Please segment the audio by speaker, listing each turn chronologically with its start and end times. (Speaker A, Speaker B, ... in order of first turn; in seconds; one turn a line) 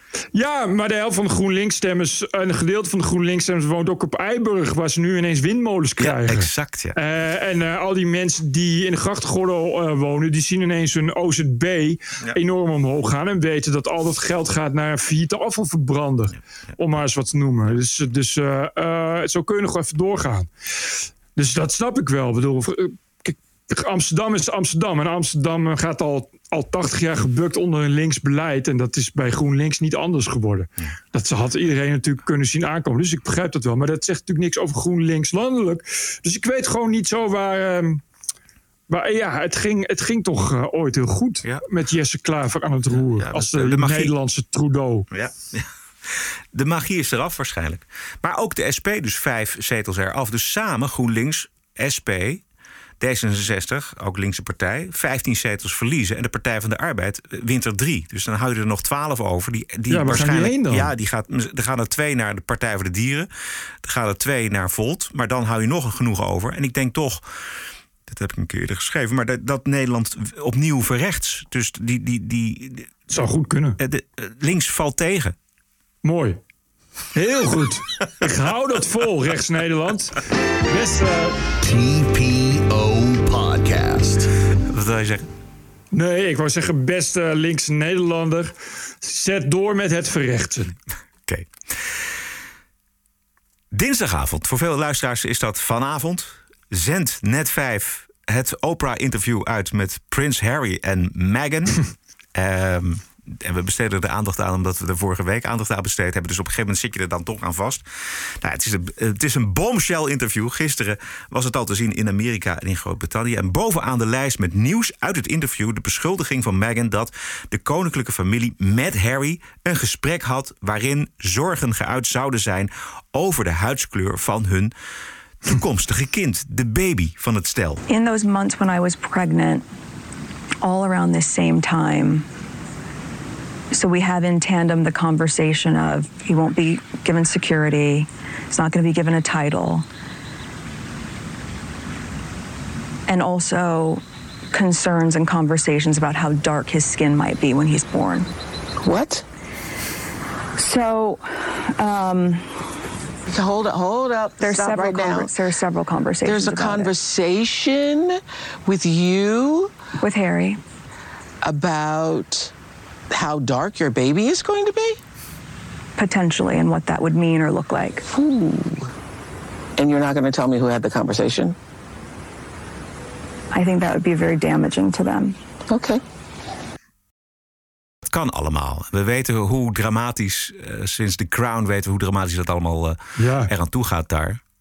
Speaker A: 0.3-20.5
Speaker B: 6.0-6.9
Speaker A: 21.3-38.0
Speaker A: 38.9-45.1
Speaker B: 43.2-44.1
Speaker B: 45.1-52.4
Speaker B: 53.0-63.3
Speaker A: 59.9-60.9
Speaker B: 63.8-67.2
Speaker B: 68.1-72.9
Speaker A: 73.1-73.8
Speaker B: 73.8-75.3
Speaker A: 76.0-76.4
Speaker A: 77.1-80.2
Speaker A: 80.7-81.4
Speaker C: 81.6-84.3
Speaker B: 84.7-85.2
Speaker A: 85.9-90.8
Speaker B: 93.7-101.8
Speaker B: 102.3-107.8
Speaker B: 108.4-124.7
Speaker B: 125.4-127.8
Speaker D: 127.9-129.6
Speaker D: 130.6-132.3
Speaker D: 133.7-139.8
Speaker D: 143.1-144.0
Speaker D: 144.5-148.3
Speaker E: 148.8-149.2
Speaker D: 150.6-152.5
Speaker E: 153.3-155.3
Speaker D: 154.4-156.9
Speaker E: 156.2-159.7
Speaker D: 160.0-160.6
Speaker E: 161.4-162.5
Speaker E: 163.1-165.0
Speaker D: 166.0-168.0
Speaker E: 168.1-168.9
Speaker E: 169.8-171.6
Speaker D: 173.5-175.4
Speaker E: 175.7-176.0
Speaker B: 178.1-184.4
Speaker A: 183.2-183.5